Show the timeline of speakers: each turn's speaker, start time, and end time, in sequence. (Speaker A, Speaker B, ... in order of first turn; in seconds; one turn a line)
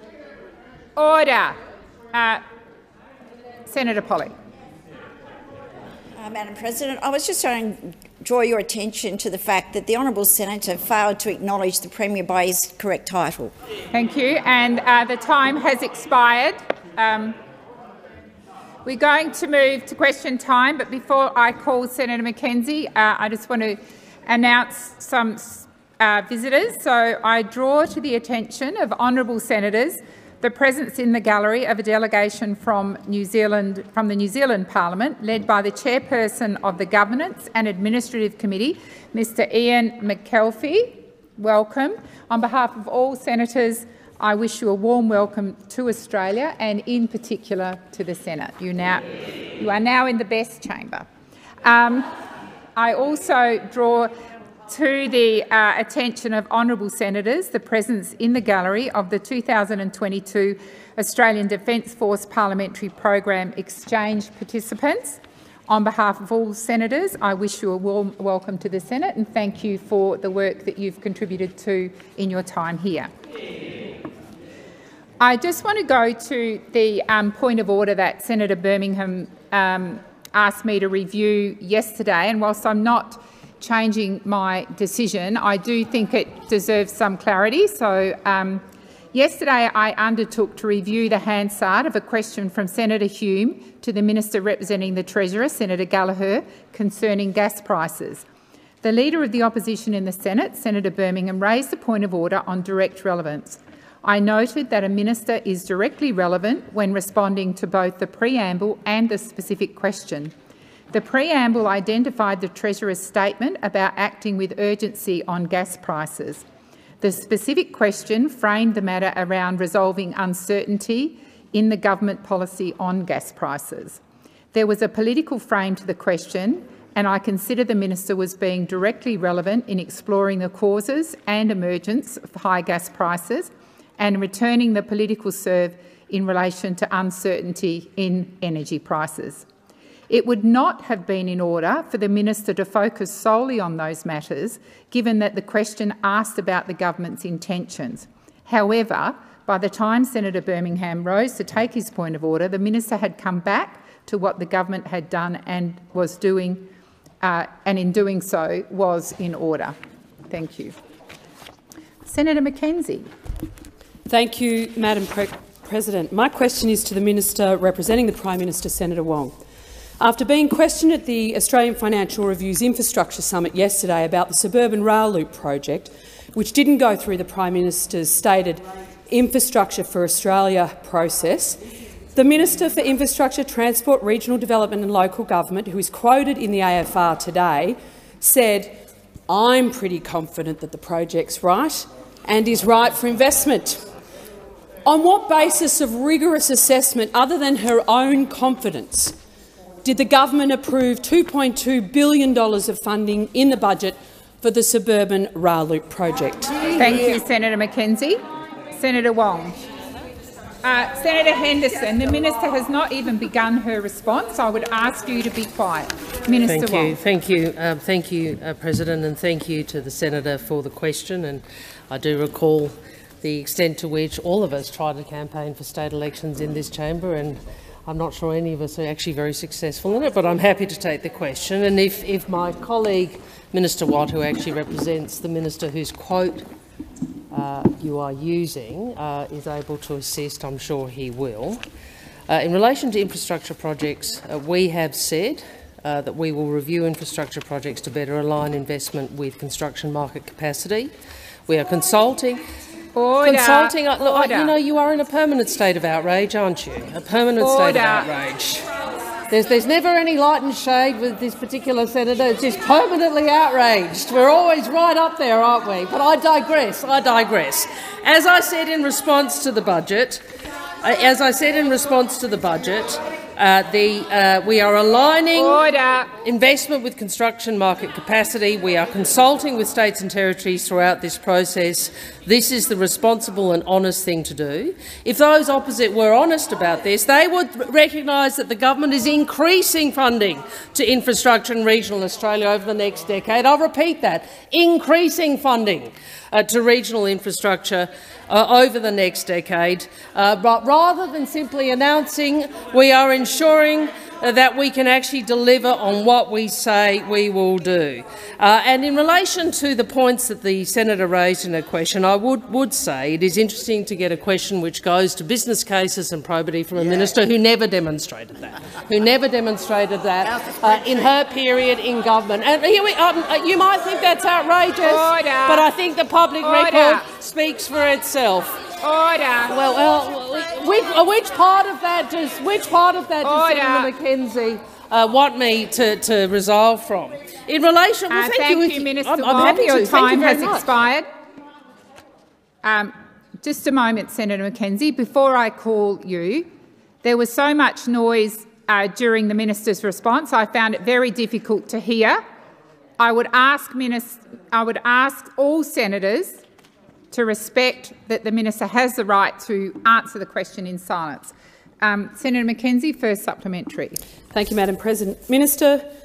Speaker A: 0.9-1.6
Speaker A: 2.1-2.4
Speaker A: 3.7-4.3
Speaker B: 6.2-13.5
Speaker A: 13.9-17.4
Speaker A: 18.8-49.0
Speaker A: 49.6-51.1
Speaker A: 51.6-52.1
Speaker A: 52.8-54.1
Speaker A: 54.7-73.1
Speaker A: 75.2-98.2
Speaker A: 98.8-110.3
Speaker A: 110.9-116.4
Speaker A: 117.0-124.0
Speaker A: 124.5-139.4
Speaker A: 140.1-156.7
Speaker A: 157.2-159.8
Speaker A: 160.3-160.8
Speaker A: 162.1-163.1
Speaker C: 164.1-169.3
Speaker C: 170.0-181.6
Speaker C: 182.1-188.8
Speaker C: 189.3-193.8
Speaker C: 194.8-199.1
Speaker C: 199.8-207.0
Speaker A: 206.7-208.2
Speaker A: 208.7-209.6
Speaker A: 210.6-217.0
Speaker D: 216.4-236.4
Speaker D: 237.3-241.6
Speaker D: 242.3-250.9
Speaker D: 251.5-252.4
Speaker A: 252.9-254.5
Speaker D: 253.2-258.6
Speaker A: 257.4-258.1
Speaker D: 259.3-270.2
Speaker D: 270.8-275.6
Speaker A: 275.3-276.1
Speaker D: 276.2-328.6
Speaker A: 324.9-325.7
Speaker A: 326.4-327.0
Speaker A: 328.8-329.5
Speaker D: 329.5-340.7
Speaker A: 333.2-333.9
Speaker A: 338.1-341.1
Speaker A: 342.6-346.5
Speaker A: 347.0-352.2
Speaker A: 353.0-356.4
Speaker A: 357.1-364.0
Speaker C: 364.3-365.9